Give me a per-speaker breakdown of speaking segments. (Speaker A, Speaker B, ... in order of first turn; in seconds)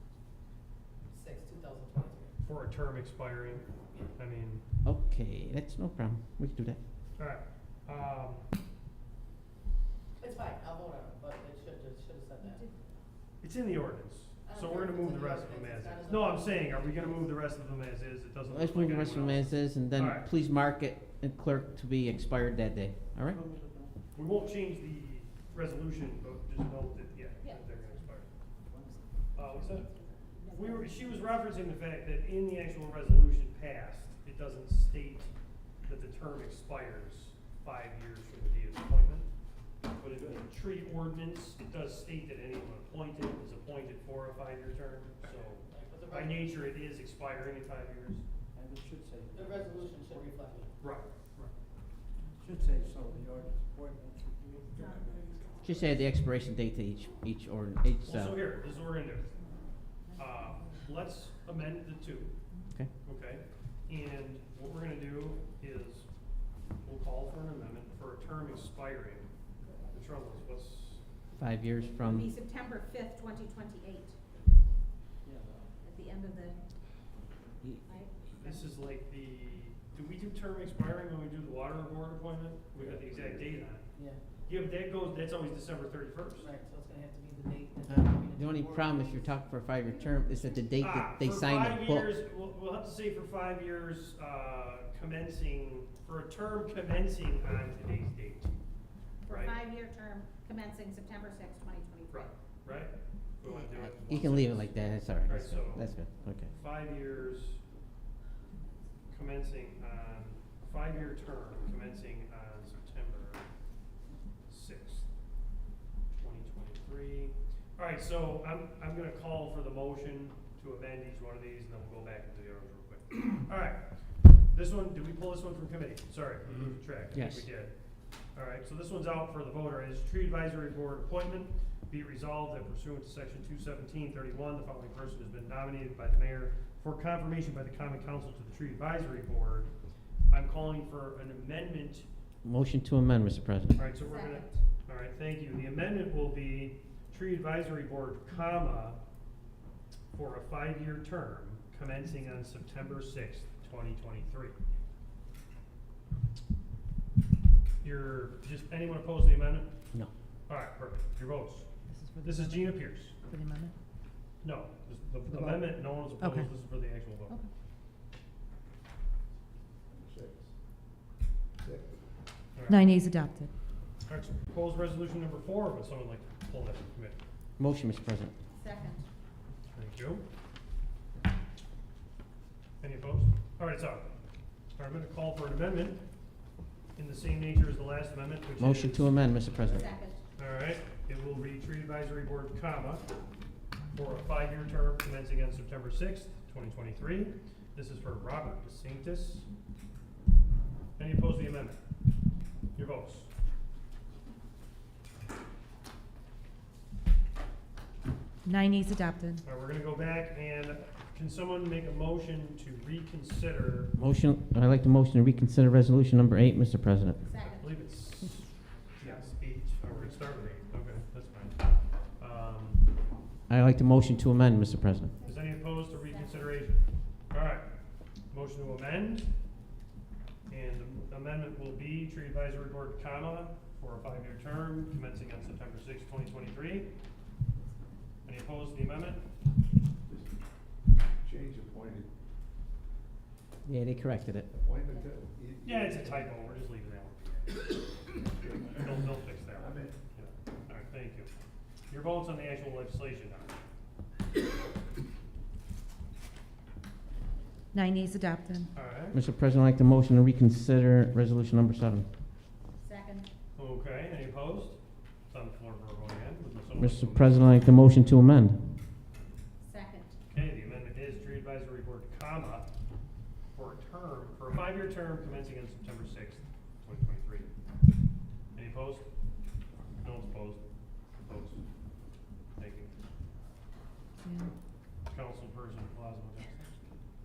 Speaker A: 1.1-2.4, 10.2-12.7, 14.5-17.4, 45.7-46.5, 49.3-50.7, 83.9-84.2, 86.4-89.2
Speaker B: 2.4-4.6, 7.2-8.5, 13.4-20.3, 24.1-28.3, 29.3-29.9, 30.5-35.3, 35.9-39.3, 39.9-48.2, 50.8-51.5, 58.0-59.3, 60.1-62.3, 63.0-66.1, 66.8-69.3, 69.9-71.0, 78.4-83.9, 84.5-86.5, 90.8-98.5, 99.3-99.6, 102.1-104.7, 105.2-105.9, 106.5-107.6, 109.1-113.5, 114.5-115.1, 116.2-123.9, 124.5-127.8, 128.3-139.7, 140.3-142.1, 143.8-149.0, 150.1-154.6, 157.8-159.7, 160.5-161.7, 162.2-163.2, 164.4-167.4, 172.6-172.9, 174.1-177.2, 179.7-180.2, 182.8-184.1, 184.7-186.0, 187.0-189.2, 190.4-193.0, 193.9-199.5, 201.0-201.8, 202.8-203.3, 209.4-213.9, 217.6-221.7, 222.2-222.9, 225.2-227.7, 228.3-229.3, 230.5-236.9, 238.2-239.2, 245.6-247.8, 248.7-251.3, 251.9-253.5, 258.7-259.2, 263.6-264.8, 265.3-267.5, 270.3-272.7, 273.6-277.5, 278.5-279.1, 280.0-280.6, 281.2-281.6, 282.6-283.0, 285.1-286.8
Speaker C: 4.8-6.8, 18.5-23.4, 55.6-58.4, 71.4-72.3, 87.9-92.1, 103.6-106.5, 127.1-127.5, 142.4-143.8, 177.6-178.3, 188.6-189.9, 213.9-217.2, 223.5-225.1, 243.7-244.5, 259.1-262.1, 266.8-268.6
Speaker D: 12.4-12.8, 27.4-27.9, 29.5-31.5, 72.0-74.2, 75.8-76.6, 77.8-78.6, 89.9-90.7, 99.3-102.3, 144.0-144.6, 178.6-179.1, 189.6-190.2, 217.2-217.8, 225.9-226.5, 262.8-263.3, 269.6-270.2
Speaker E: 23.3-23.9, 28.7-29.1, 40.1-40.5, 48.5-50.2, 52.4-55.3, 75.2-75.7
Speaker F: 54.8-55.4, 169.9-170.5, 171.6-172.0, 240.1-240.3, 241.2-242.1, 244.5-246.5, 248.3-248.9, 249.5-250.0
Speaker G: 162.0-163.8, 166.2-166.5, 172.7-173.5, 208.4-209.4, 257.7-258.7, 284.2-284.5